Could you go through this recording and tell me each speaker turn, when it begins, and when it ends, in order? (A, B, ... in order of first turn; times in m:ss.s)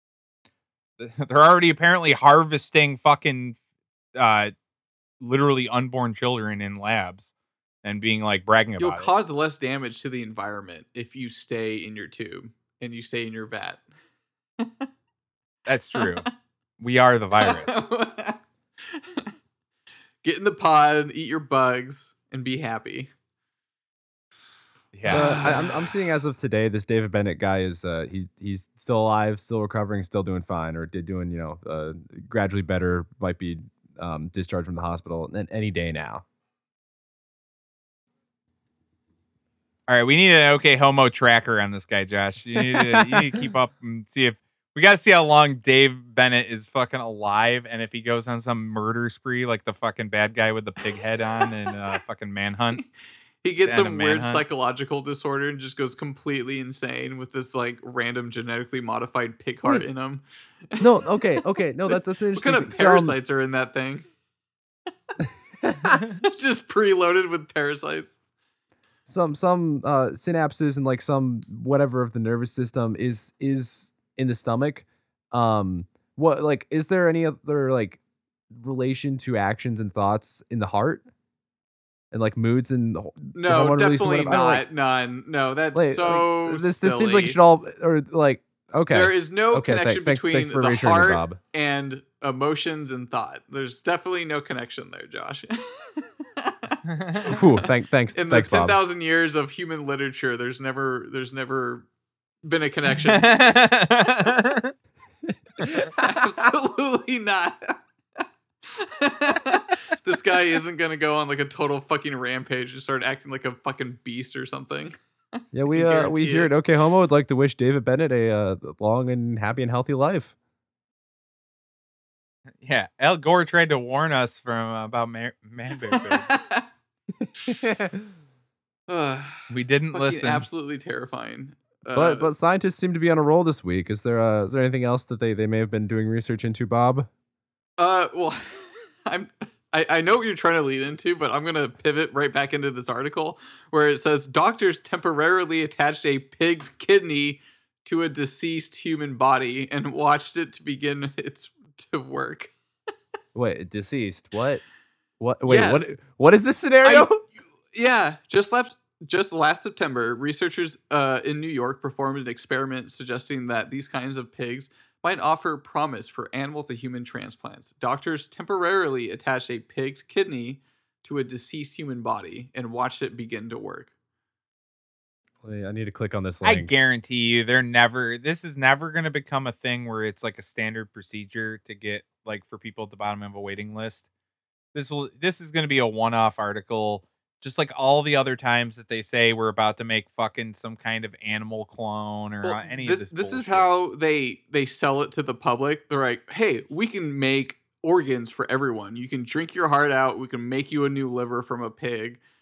0:01.0-0:03.6 A
0:04.2-0:04.5 A
0:05.2-0:07.3 A
0:07.8-0:09.1 A
0:08.8-0:13.8 B
0:14.6-0:14.9 B
0:15.7-0:16.3 A
0:16.8-0:17.8 A
0:17.4-0:18.4 B
0:18.9-0:19.3 B
0:20.2-0:23.1 B
0:24.9-0:25.4 A
0:25.1-0:25.8 B
0:25.1-0:36.2 C
0:39.9-0:52.8 A
0:42.6-0:43.4 C
0:53.4-1:04.0 B
0:53.6-0:54.4 A
1:00.8-1:03.2 C
1:05.6-1:06.0 C
1:05.9-1:08.2 B
1:09.0-1:18.0 C
1:18.5-1:21.0 C
1:22.1-1:24.6 C
1:23.3-1:27.4 B
1:25.7-1:31.4 C
1:28.9-1:37.4 B
1:36.9-1:37.3 A
1:37.3-1:38.8 C
1:38.1-1:41.8 B
1:42.4-1:43.3 B
1:43.1-1:44.7 A
1:45.3-1:46.2 C
1:46.0-1:47.8 B
1:48.7-1:54.9 B
1:55.5-2:00.3 C
1:55.7-1:56.5 B
2:02.6-2:06.3 A
2:06.2-2:06.6 B
2:07.4-2:08.1 C
2:08.9-2:12.3 B
2:09.5-2:10.4 A
2:11.9-2:17.1 C
2:17.8-2:32.5 B
2:33.3-2:34.6 C
2:35.2-2:37.2 C
2:35.5-2:35.8 B
2:36.8-2:37.1 B
2:37.7-2:53.9 B
2:55.4-2:56.7 C
2:56.4-3:04.0 A
3:04.7-3:13.7 A
3:12.4-3:22.2 B